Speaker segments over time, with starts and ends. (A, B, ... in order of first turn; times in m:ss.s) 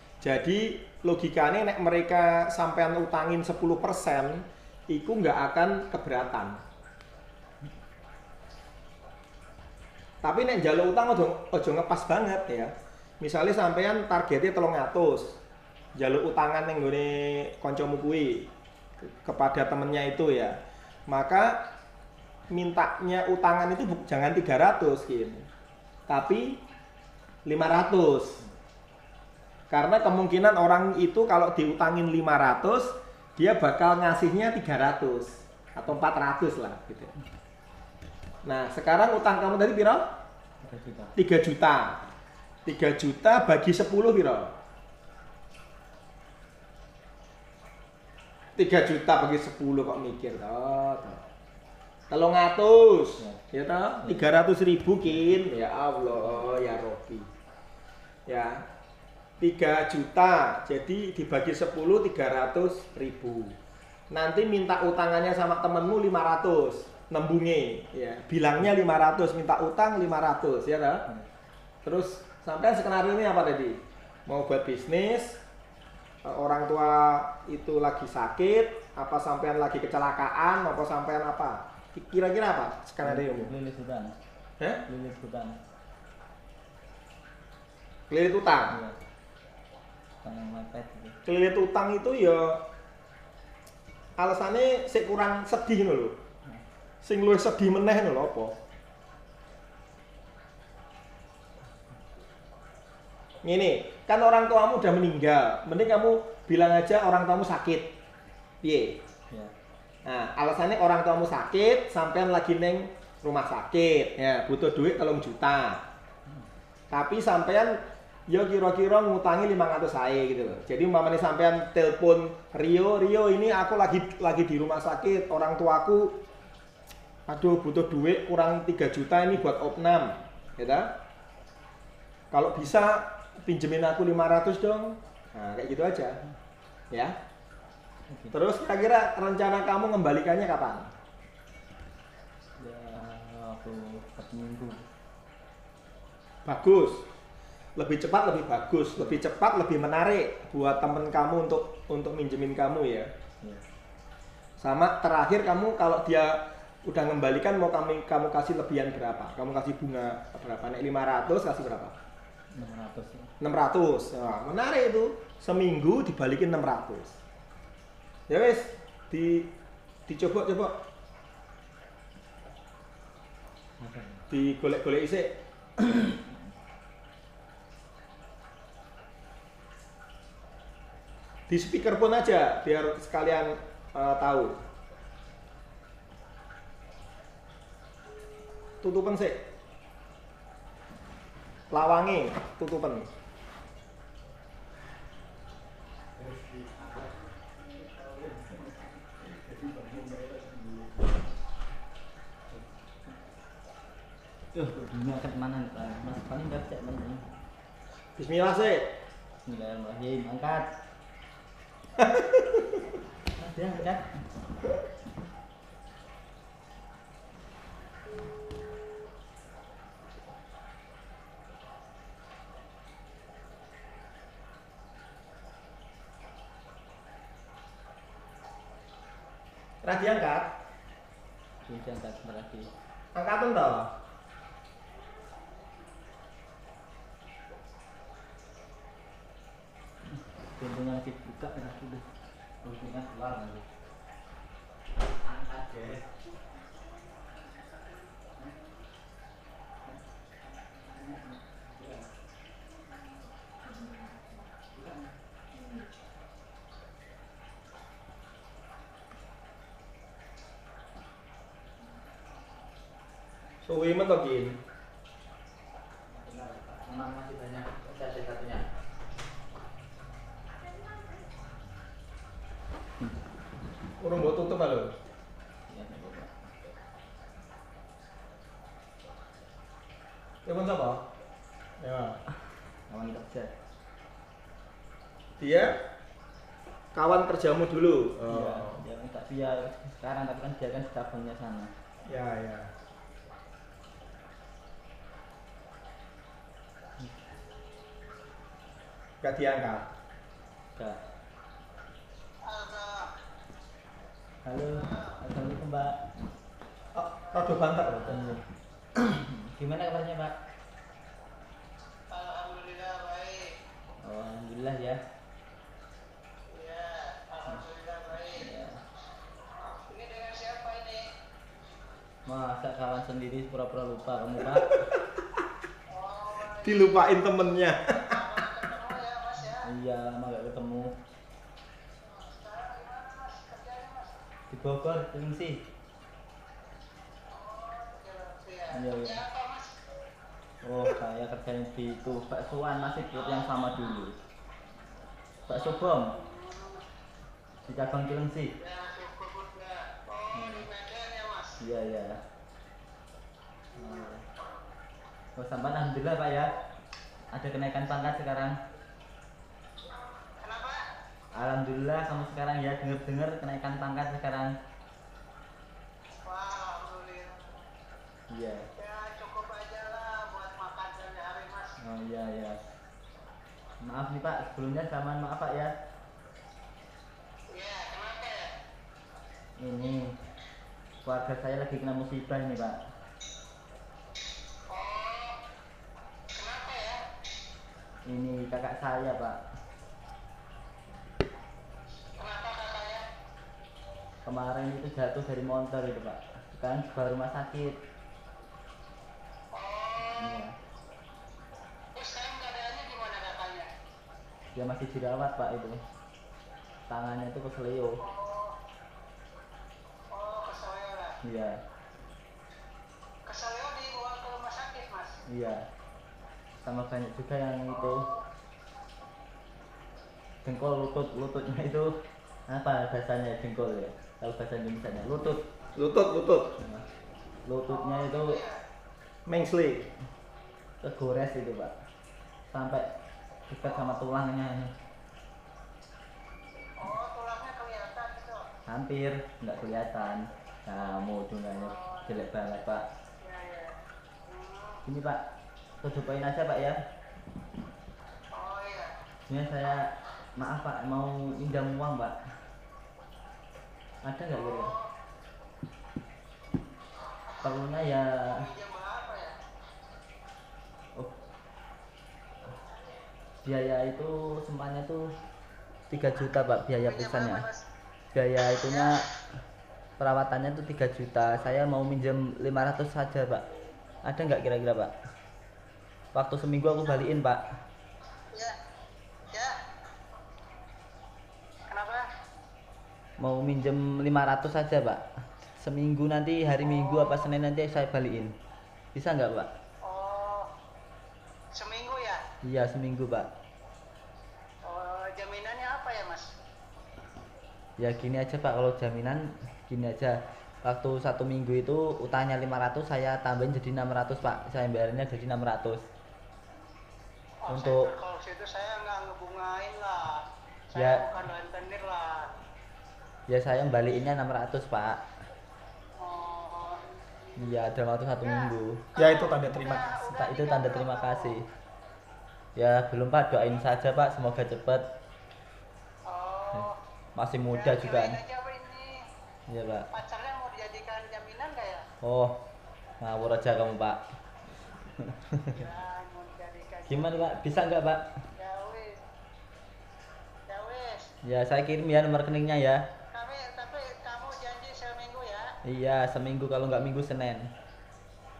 0:00.2-0:06.6 A
0:10.2-0:15.4 A
0:16.0-0:18.5 A
0:19.0-0:20.6 A
0:21.1-0:21.6 A
0:22.5-0:25.4 A
0:26.1-0:26.6 A
0:27.4-0:28.4 A
0:29.7-0:37.1 A
0:38.4-0:40.0 A
0:40.6-0:41.1 B
0:41.2-0:42.0 A
0:42.6-0:44.5 A
0:48.6-0:51.2 A
0:52.1-0:57.3 A
0:54.0-0:54.3 B
0:58.3-0:58.6 A
0:59.4-1:03.5 A
1:04.1-1:11.0 A
1:11.8-1:15.4 A
1:16.2-1:23.5 A
1:23.0-1:24.1 B
1:24.8-1:25.6 B
1:28.1-1:28.8 A
1:28.7-1:29.0 B
1:30.2-1:31.2 B
1:31.2-1:32.6 A
1:34.2-1:36.2 A
1:37.0-1:38.5 A
1:43.4-1:47.9 A
1:48.6-1:49.0 A
1:50.0-1:55.8 A
1:56.9-2:06.2 A
2:07.3-2:10.9 A
2:12.3-2:16.2 A
2:18.1-2:18.3 B
2:18.3-2:20.9 A
2:22.6-2:24.8 B
2:26.4-2:27.0 A
2:27.8-2:33.1 A
2:34.6-2:41.9 A
2:42.5-2:43.3 B
2:43.4-2:47.2 A
2:48.3-2:49.5 A
2:50.1-2:50.7 A
2:53.8-2:54.2 B
2:54.3-2:55.3 A
2:55.8-2:56.3 B
3:01.5-3:04.6 A
3:08.8-3:09.4 A
3:11.7-3:13.1 A
3:16.2-3:21.1 B
3:24.5-3:27.2 B
3:28.2-3:28.9 A
3:29.4-3:30.7 B
3:32.0-3:32.8 A
3:33.4-3:34.0 B
3:49.8-3:50.5 A
3:51.6-3:52.7 B
3:53.1-3:53.9 A
4:00.6-4:02.0 B
4:02.6-4:03.6 B
4:05.2-4:06.1 B
4:10.6-4:12.1 B
4:14.7-4:15.1 B
4:23.6-4:24.6 A
4:26.1-4:28.6 B
4:34.0-4:34.9 A
4:35.7-4:36.3 B
4:40.4-4:41.0 A
4:41.8-4:42.2 A
4:42.9-4:43.5 B
4:45.4-4:45.8 A
4:46.9-4:48.8 A
4:48.2-4:51.7 B
4:52.1-4:52.7 A
4:59.2-4:59.9 A
5:02.4-5:03.1 C
5:04.4-5:06.0 B
5:04.8-5:05.2 C
5:06.9-5:08.3 A
5:07.8-5:08.4 B
5:09.0-5:10.3 B
5:12.1-5:13.5 C
5:14.0-5:15.0 B
5:16.5-5:18.5 C
5:18.4-5:18.8 B
5:19.6-5:21.1 C
5:22.2-5:24.9 B
5:25.9-5:27.1 C
5:26.6-5:28.4 A
5:28.0-5:29.7 C
5:29.6-5:31.0 B
5:32.0-5:34.1 C
5:34.5-5:35.6 B
5:37.3-5:39.8 C
5:38.7-5:39.2 B
5:40.6-5:44.2 B
5:45.5-5:46.2 B
5:45.5-5:46.8 C
5:47.6-5:48.5 B
5:48.6-5:51.6 C
5:50.3-5:50.7 B
5:51.6-5:52.2 B
5:53.7-5:54.1 C
5:53.8-5:54.2 B
5:55.4-5:56.5 B
5:57.3-5:58.6 B
6:00.4-6:00.8 C
6:01.3-6:04.5 B
6:06.2-6:07.6 C
6:08.3-6:08.7 B
6:08.8-6:11.8 C
6:11.8-6:12.6 B
6:13.8-6:15.7 B
6:17.5-6:18.5 C
6:19.6-6:20.1 B
6:21.0-6:22.8 B
6:24.7-6:25.4 C
6:26.3-6:27.0 C
6:28.0-6:29.4 B
6:32.2-6:33.1 C
6:34.2-6:37.8 B
6:39.5-6:40.4 C
6:40.0-6:40.5 B
6:41.9-6:43.7 C
6:44.5-6:45.8 B
6:46.9-6:48.0 B
6:48.0-6:48.6 C
6:50.1-6:51.2 C
6:51.2-6:51.6 B
6:53.2-6:55.2 C
6:55.3-6:55.6 B
6:56.6-6:58.1 B
6:57.7-6:58.2 C
7:00.4-7:01.9 B
7:02.5-7:05.4 B
7:05.8-7:06.6 A
7:06.6-7:06.9 B
7:07.4-7:08.4 B
7:07.7-7:08.6 C
7:09.3-7:09.9 A
7:10.8-7:11.7 B
7:12.5-7:12.9 B
7:13.5-7:14.7 B
7:16.8-7:18.5 C
7:18.6-7:22.8 B
7:21.5-7:22.2 C
7:23.2-7:24.8 C
7:24.8-7:25.2 B
7:25.8-7:26.8 B
7:28.3-7:29.0 C
7:29.3-7:32.2 B
7:34.0-7:34.7 B
7:34.3-7:34.9 C
7:37.4-7:38.5 B
7:38.2-7:39.4 C
7:43.4-7:45.0 B
7:45.9-7:47.4 B
7:46.9-7:47.6 C
7:48.1-7:49.1 B
7:48.4-7:49.0 C
7:50.0-7:53.4 B
7:54.0-7:54.9 B
7:56.1-7:57.4 B
7:59.3-7:59.6 C
8:01.7-8:02.1 C
8:03.2-8:05.0 B
8:05.6-8:08.3 B
8:06.6-8:07.3 C
8:08.9-8:09.5 B
8:09.8-8:10.5 C
8:11.5-8:12.2 C
8:12.4-8:13.3 B
8:14.6-8:16.3 C
8:17.8-8:25.8 B
8:27.4-8:32.3 C
8:27.5-8:27.9 B
8:30.7-8:31.1 B
8:33.3-8:35.0 B
8:36.0-8:36.8 C
8:37.4-8:38.9 B
8:38.2-8:41.3 C
8:39.0-8:39.9 A
8:39.9-8:41.4 B
8:42.6-8:44.8 B
8:46.0-8:46.8 C
8:46.5-8:48.2 B
8:47.5-8:49.0 C
8:49.5-8:49.9 B
8:49.9-8:51.9 C
8:52.0-8:52.4 B
8:53.0-8:54.0 B
8:55.0-8:55.6 B
8:55.5-8:57.4 C
8:56.9-8:58.1 B
8:58.4-8:59.0 C
9:00.5-9:01.1 C
9:01.2-9:02.8 B
9:03.1-9:05.5 C
9:05.6-9:07.5 B